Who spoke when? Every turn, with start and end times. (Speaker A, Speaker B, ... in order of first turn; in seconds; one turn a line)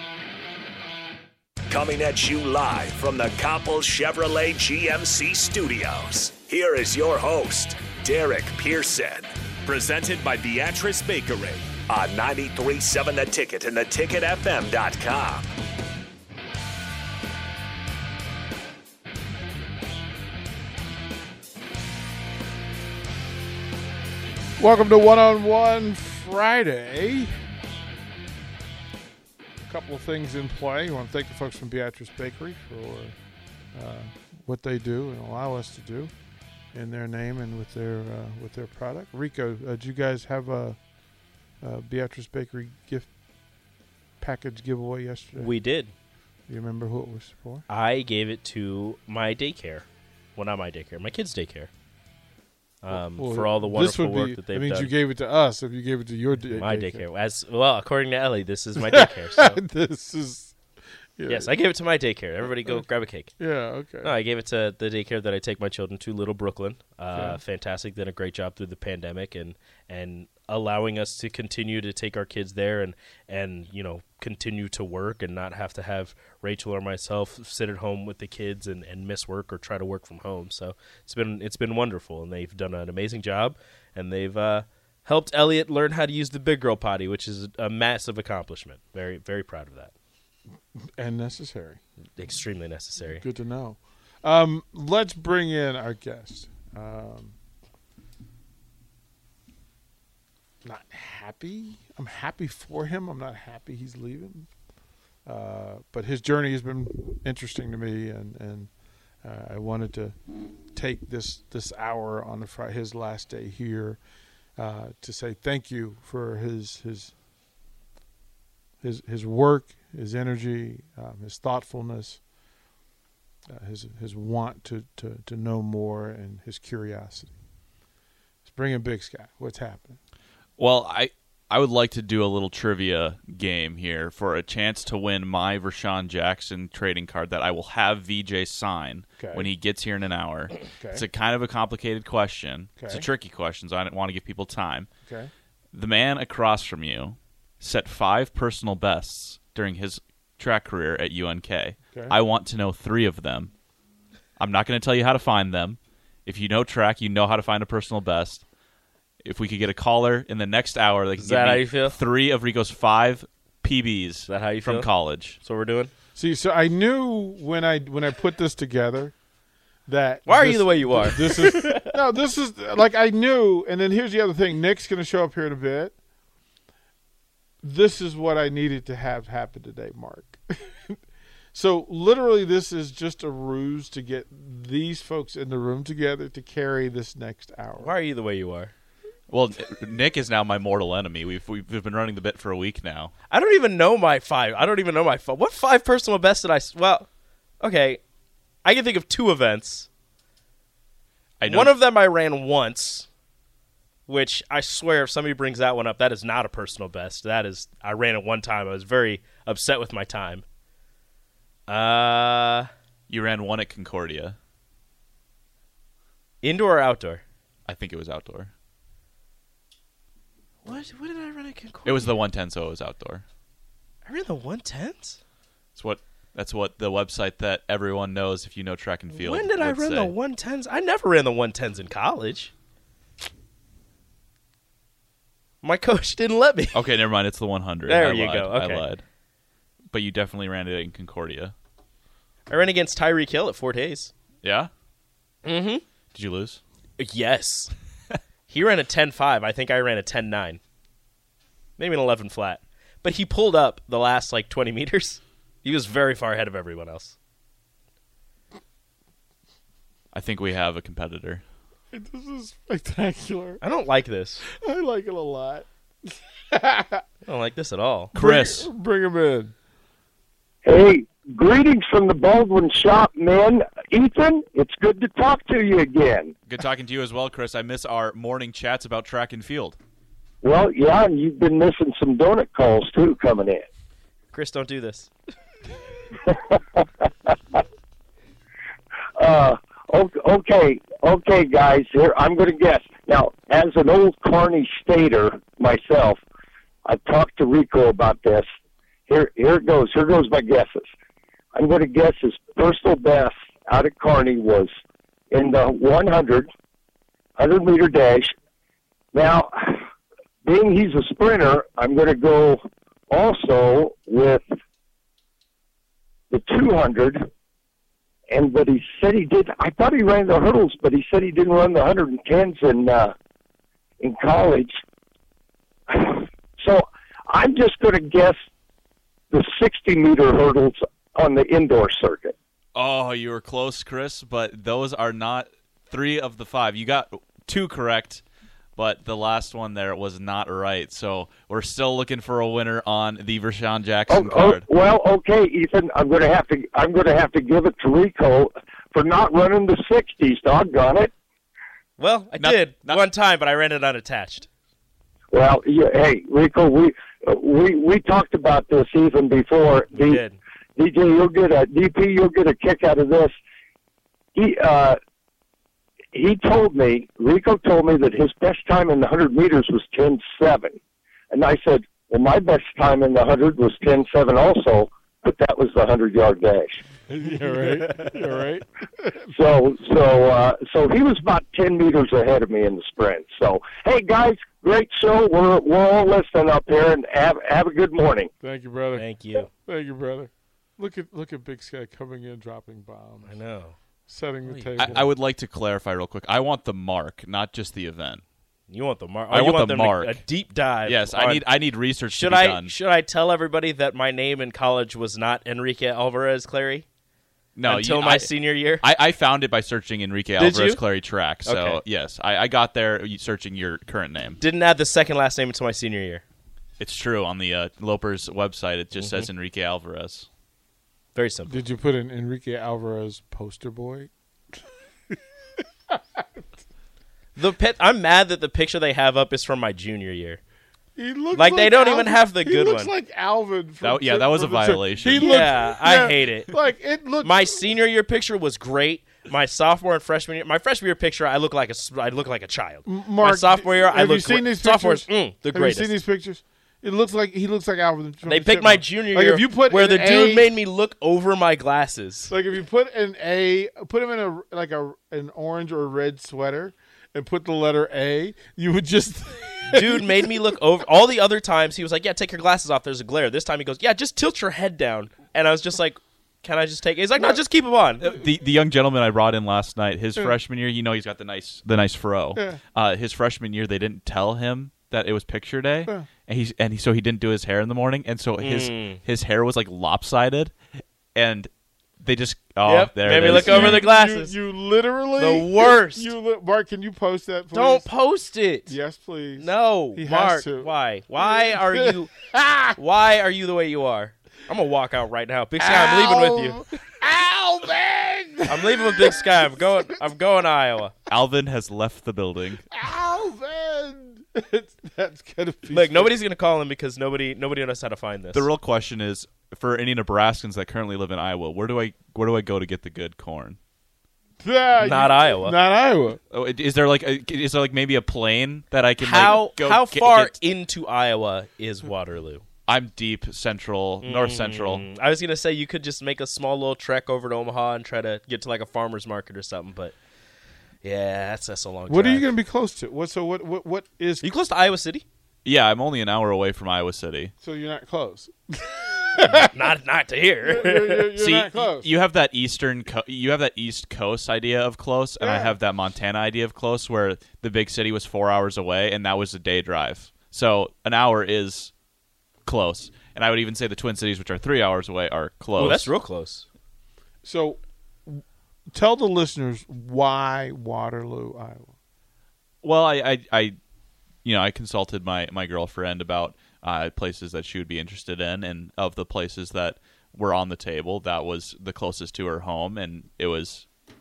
Speaker A: 1.7-15.5
Speaker B: 24.6-27.3
Speaker B: 29.7-33.1
Speaker B: 33.7-36.1
Speaker B: 36.7-40.8
Speaker B: 41.6-43.1
Speaker B: 44.2-45.5
Speaker C: 45.4-45.9
Speaker B: 46.5-47.6
Speaker C: 47.7-51.7
Speaker C: 52.8-54.9
Speaker B: 52.9-57.0
Speaker C: 56.5-59.6
Speaker B: 58.8-60.5
Speaker B: 61.2-61.5
Speaker C: 61.3-63.3
Speaker B: 63.4-64.1
Speaker C: 64.0-89.9
Speaker B: 67.1-67.4
Speaker B: 90.8-91.8
Speaker C: 92.2-93.2
Speaker B: 93.1-97.3
Speaker B: 100.6-104.5
Speaker B: 105.2-108.7
Speaker B: 109.2-110.2
Speaker B: 110.7-114.0
Speaker B: 114.6-117.1
Speaker B: 118.8-122.2
Speaker B: 123.5-127.3
Speaker B: 128.4-130.0
Speaker D: 130.6-144.9
Speaker B: 139.2-139.5
Speaker B: 140.8-141.0
Speaker B: 142.8-143.1
Speaker B: 145.1-145.3
Speaker D: 145.7-153.5
Speaker D: 154.4-158.4
Speaker D: 159.2-165.4
Speaker C: 161.2-162.0
Speaker C: 164.3-164.9
Speaker C: 165.4-165.9
Speaker B: 166.2-169.1
Speaker B: 169.9-175.9
Speaker C: 170.3-171.9
Speaker B: 177.6-181.0
Speaker B: 181.5-187.9
Speaker C: 187.8-188.7
Speaker D: 189.3-193.1
Speaker C: 193.3-197.1
Speaker C: 197.6-198.0
Speaker C: 198.6-199.9
Speaker D: 201.4-201.7
Speaker C: 201.4-203.1
Speaker C: 204.1-210.4
Speaker C: 211.7-212.7
Speaker D: 213.1-214.4
Speaker C: 216.4-217.2
Speaker D: 217.7-218.5
Speaker C: 220.6-222.1
Speaker D: 221.8-223.2
Speaker C: 224.0-225.2
Speaker D: 225.8-230.1
Speaker C: 229.1-232.5
Speaker C: 235.6-236.8
Speaker D: 236.7-239.0
Speaker C: 237.9-238.8
Speaker D: 239.9-241.5
Speaker C: 242.5-244.1
Speaker D: 244.4-244.7
Speaker C: 245.4-245.8
Speaker D: 246.1-246.6
Speaker C: 247.0-247.7
Speaker C: 248.5-250.6
Speaker C: 251.8-257.1
Speaker D: 260.1-261.4
Speaker B: 261.9-263.6
Speaker C: 263.6-264.4
Speaker B: 264.4-267.0
Speaker C: 267.2-268.1
Speaker B: 268.1-269.5
Speaker D: 268.1-268.7
Speaker E: 270.6-276.3
Speaker D: 276.5-279.8
Speaker E: 280.4-283.6
Speaker C: 284.3-285.1
Speaker E: 286.2-287.6
Speaker E: 289.2-296.2
Speaker E: 296.9-298.5
Speaker E: 299.1-300.9
Speaker E: 301.5-304.7
Speaker E: 305.3-306.5
Speaker E: 307.4-308.3
Speaker E: 309.1-309.8
Speaker E: 310.4-314.5
Speaker E: 316.3-317.3
Speaker E: 318.3-323.1
Speaker E: 324.0-324.8
Speaker E: 325.9-328.4
Speaker E: 329.3-332.3
Speaker D: 332.7-338.2
Speaker D: 338.8-344.6
Speaker E: 344.1-351.1
Speaker C: 352.0-354.5
Speaker D: 352.4-353.0
Speaker E: 355.3-360.2
Speaker C: 359.9-360.4
Speaker E: 360.8-363.3
Speaker E: 364.3-365.0
Speaker E: 366.1-370.8
Speaker E: 371.3-376.8
Speaker B: 377.1-379.1
Speaker C: 377.3-378.3
Speaker E: 379.3-388.3
Speaker B: 388.4-393.4
Speaker C: 388.9-389.5
Speaker C: 393.2-393.8
Speaker B: 394.1-395.1
Speaker C: 394.4-395.0
Speaker D: 394.8-398.2
Speaker C: 398.7-401.4
Speaker D: 399.3-400.2
Speaker D: 400.9-402.7
Speaker C: 402.1-406.9
Speaker D: 407.6-408.3
Speaker C: 407.7-408.8
Speaker D: 408.8-414.4
Speaker C: 410.4-410.8
Speaker C: 411.4-411.8
Speaker C: 414.4-416.2
Speaker D: 416.8-420.3
Speaker C: 419.0-419.3
Speaker C: 421.1-421.5
Speaker B: 421.5-424.1
Speaker B: 425.9-426.2
Speaker C: 427.4-430.4
Speaker B: 430.9-437.6
Speaker C: 431.3-432.9
Speaker D: 433.8-435.5
Speaker C: 435.2-436.5
Speaker C: 437.2-445.9
Speaker B: 442.8-450.5
Speaker C: 448.2-452.3
Speaker B: 452.3-460.6
Speaker C: 459.7-468.1
Speaker D: 468.0-480.5
Speaker B: 472.3-472.6
Speaker C: 478.4-479.0
Speaker D: 481.1-481.5
Speaker D: 482.0-483.8
Speaker C: 482.6-484.3
Speaker B: 483.2-487.9
Speaker C: 485.2-486.1
Speaker C: 487.5-488.7
Speaker B: 488.7-492.8
Speaker C: 489.4-492.1
Speaker C: 492.7-496.6
Speaker B: 495.6-499.6
Speaker C: 498.5-500.9
Speaker D: 501.1-502.6
Speaker B: 502.7-506.1
Speaker C: 505.7-508.5
Speaker D: 508.3-513.6
Speaker B: 514.4-516.2
Speaker C: 514.8-515.5
Speaker D: 516.3-520.4
Speaker C: 519.0-522.4
Speaker D: 522.7-524.8
Speaker C: 524.0-530.0
Speaker C: 530.8-532.3
Speaker B: 531.9-534.2
Speaker C: 534.2-535.0
Speaker D: 535.4-537.3
Speaker B: 537.4-539.6
Speaker C: 539.3-541.1
Speaker B: 540.4-541.9
Speaker D: 541.2-551.7
Speaker B: 545.2-545.5
Speaker D: 552.4-555.9
Speaker C: 555.6-556.5
Speaker B: 557.2-561.7
Speaker D: 562.6-563.5
Speaker D: 564.2-573.6